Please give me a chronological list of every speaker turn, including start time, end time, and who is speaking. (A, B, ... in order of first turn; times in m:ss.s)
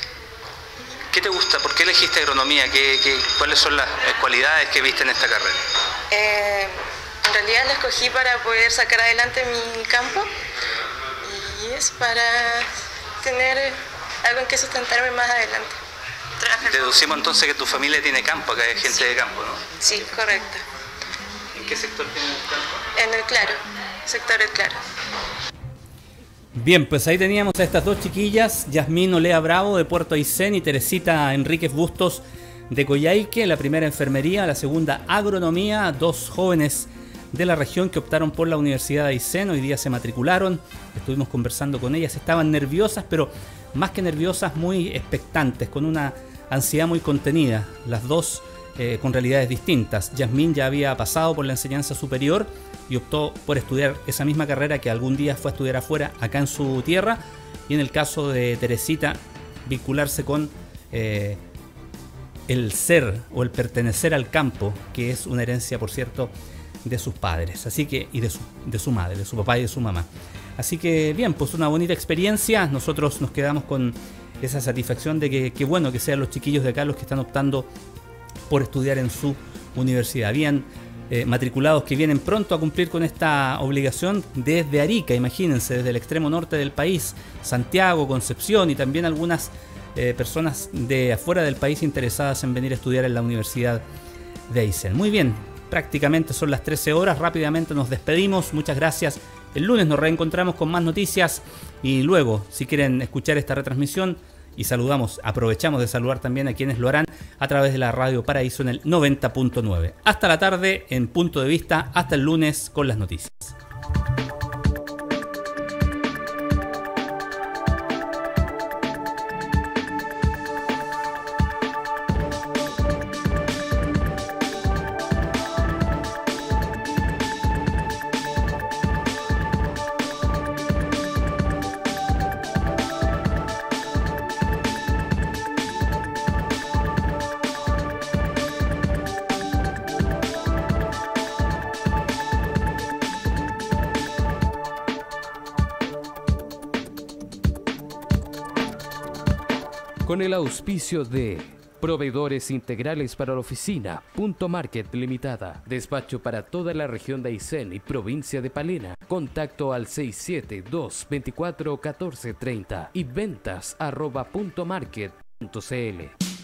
0:01.1-0:05.6 A
0:06.1-0:10.3 B
0:11.2-0:12.7 B
0:13.2-0:15.8 B
0:16.5-0:19.6 A
0:19.8-0:20.6 B
0:21.6-0:22.8 A
0:23.0-0:24.8 B
0:26.6-1:01.4 C
1:02.5-1:06.3 C
1:06.8-1:17.7 C
1:18.5-1:33.8 C
1:34.5-1:53.6 C
2:30.0-2:46.1 D